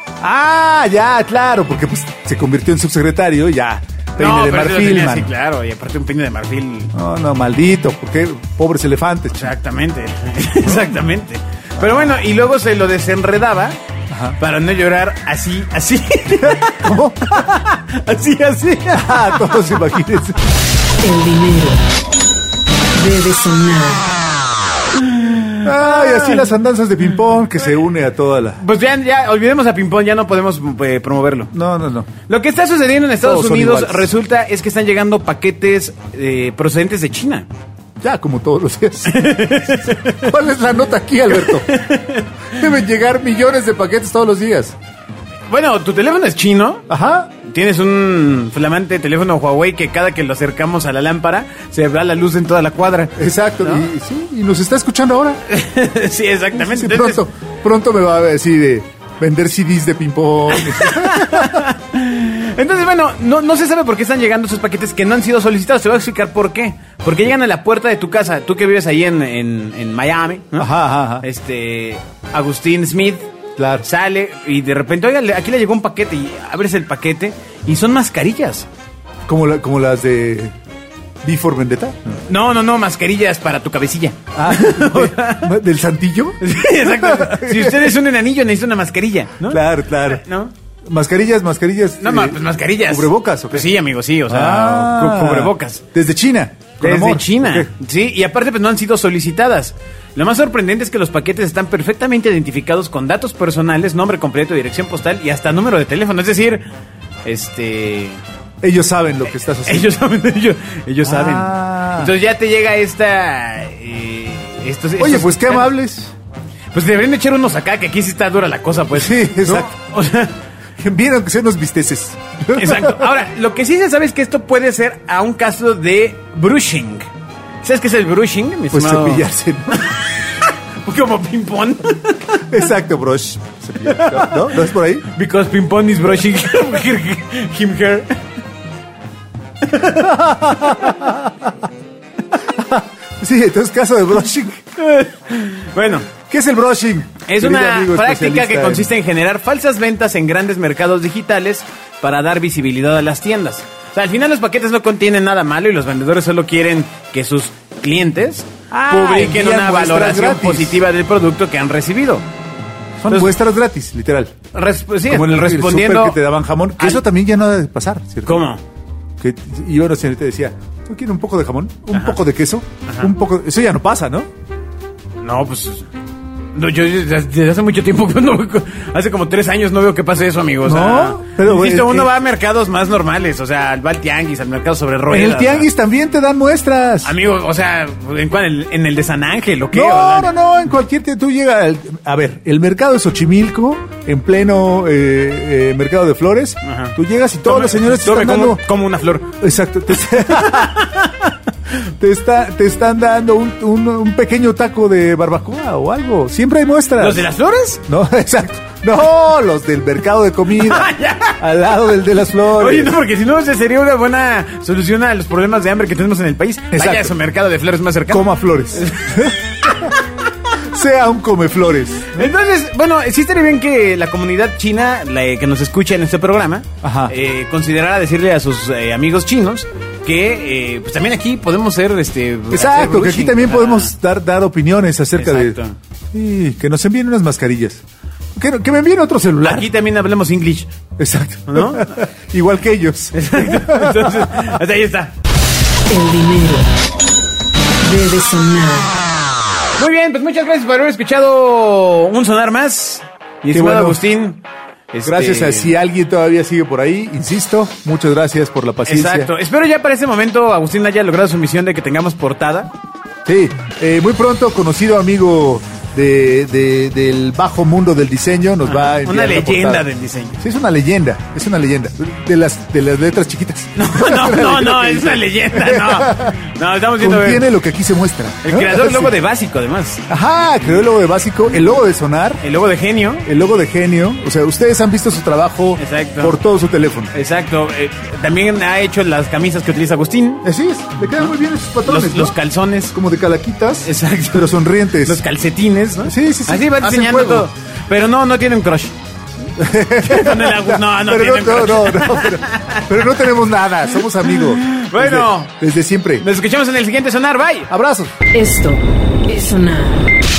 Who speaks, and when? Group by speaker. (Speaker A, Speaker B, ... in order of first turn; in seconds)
Speaker A: 0.2-5.3, 6.9-9.5, 14.1-14.4, 16.4-17.5, 18.9-20.4, 25.6-28.6, 31.5-32.1, 33.2-34.1, 38.0-41.8, 42.5-44.8, 46.9-47.3, 53.1-55.4, 56.5-61.6, 70.6-71.2, 73.6-73.8, 79.2-80.5, 81.2-82.2, 84.3-88.0, 89.5-90.2, 90.8-93.7, 94.3-97.7, 108.6-109.9, 111.0-112.1, 115.0-116.1, 118.9-119.7, 120.8-123.1, 128.7-129.8, 132.5-135.1, 139.9-141.5, 142.3-144.6, 146.2-148.9, 158.7-160.8, 163.0-164.4, 165.1-168.4, 169.2-174.3, 180.6-182.1, 185.1-187.1, 189.7-198.6, 199.4-201.1, 201.7-207.3, 207.9-212.9, 216.7-217.1, 218.1-219.4, 220.6-222.3, 226.8-227.1, 232.5-235.6, 236.1-237.8, 238.3-239.7, 241.0-244.4, 253.5-254.0, 255.0-259.3, 263.2-269.9, 270.4-276.4, 277.0-279.1, 280.1-282.4, 283.2-287.1, 290.4-292.3, 292.9-295.2, 296.0-297.5, 299.6-306.2, 307.7-308.1
Speaker B: 4.2-6.9, 9.4-13.8, 14.4-19.8, 24.9-26.5, 28.6-31.5, 32.3-37.5, 39.0-40.3, 41.4-42.7, 45.5-46.9, 47.4-53.9, 55.5-57.2, 60.5-70.7, 71.2-73.2, 73.8-78.7, 82.3-85.5, 86.4-90.5, 92.0-95.8, 96.8-106.6, 107.2-108.2, 109.6-115.7, 116.7-120.3, 122.5-127.1, 127.6-132.5, 133.8-134.6, 135.1-138.2, 139.6-141.0, 144.8-146.1, 147.3-162.2, 163.1-163.3, 164.5-166.2, 168.2-168.6, 171.9-172.2, 172.9-173.1, 175.2-175.9, 176.5-185.7, 187.0-190.3, 196.6-199.3, 200.3-201.1, 207.0-207.8, 210.5-211.4, 212.5-220.0, 222.1-233.9, 235.1-235.8, 239.4-240.7, 241.5-241.9, 243.1-245.1, 249.8-254.4, 254.9-255.7, 258.9-262.7, 268.6-270.4, 273.8-277.4, 278.4-280.0, 282.4-283.3, 285.8-286.4, 287.1-290.4, 291.8-292.9, 293.8-298.9, 300.0-302.9, 304.3-305.5, 306.2-307.7
Speaker C: 21.0-21.8, 22.9-24.1, 245.9-246.7, 247.8-249.0, 308.3-310.1